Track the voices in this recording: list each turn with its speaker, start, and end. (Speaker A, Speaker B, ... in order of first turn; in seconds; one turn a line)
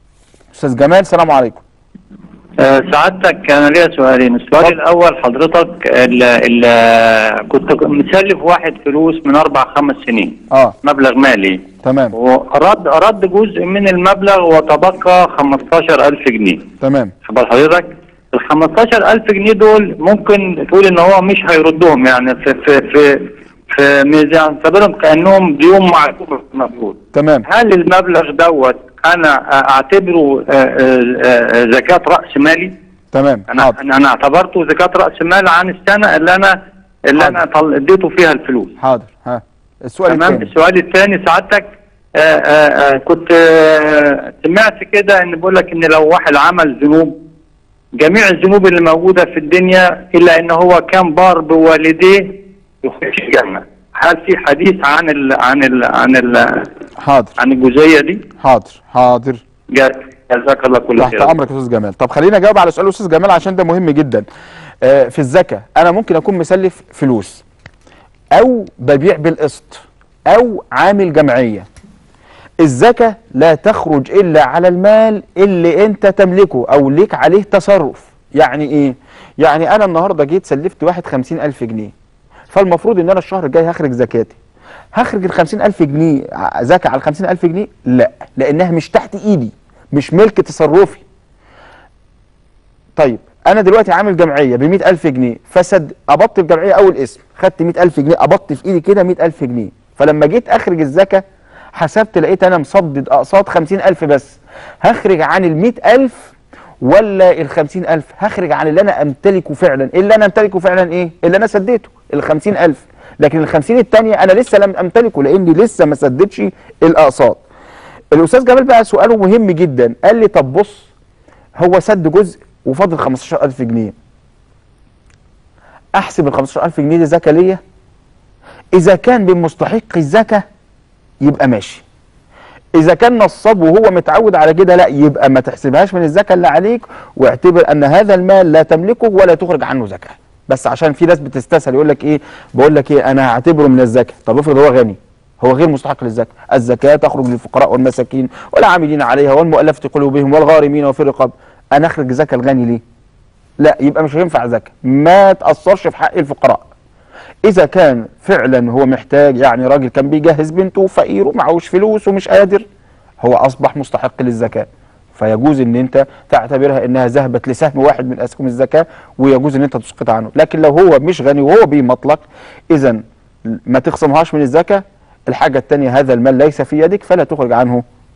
Speaker A: 0.5-1.6
Speaker B: 2.6-16.7
Speaker A: 11.8-12.1
Speaker A: 16.8-17.1
Speaker B: 17.2-32.7
Speaker A: 27.1-27.5
Speaker A: 33.1-33.8
Speaker B: 33.5-38.8
Speaker A: 37.2-37.4
Speaker A: 38.8-40.5
Speaker B: 40.1-47.2
Speaker B: 48.0-56.7
Speaker A: 57.0-57.4
Speaker B: 57.4-58.2
Speaker A: 58.4-59.4
Speaker B: 59.7-61.4
Speaker A: 61.0-64.2
Speaker A: 64.8-67.4
Speaker A: 68.3-71.7
Speaker A: 72.6-81.9
Speaker A: 82.5-84.4
Speaker A: 84.9-91.0
Speaker A: 93.0-101.2
Speaker A: 101.8-117.4
Speaker A: 118.1-120.9
Speaker A: 121.6-123.9
Speaker A: 126.0-127.6
Speaker A: 128.8-130.4
Speaker A: 131.2-131.8
Speaker A: 132.8-152.8
Speaker A: 153.6-156.7
Speaker A: 157.4-162.7
Speaker A: 163.2-177.8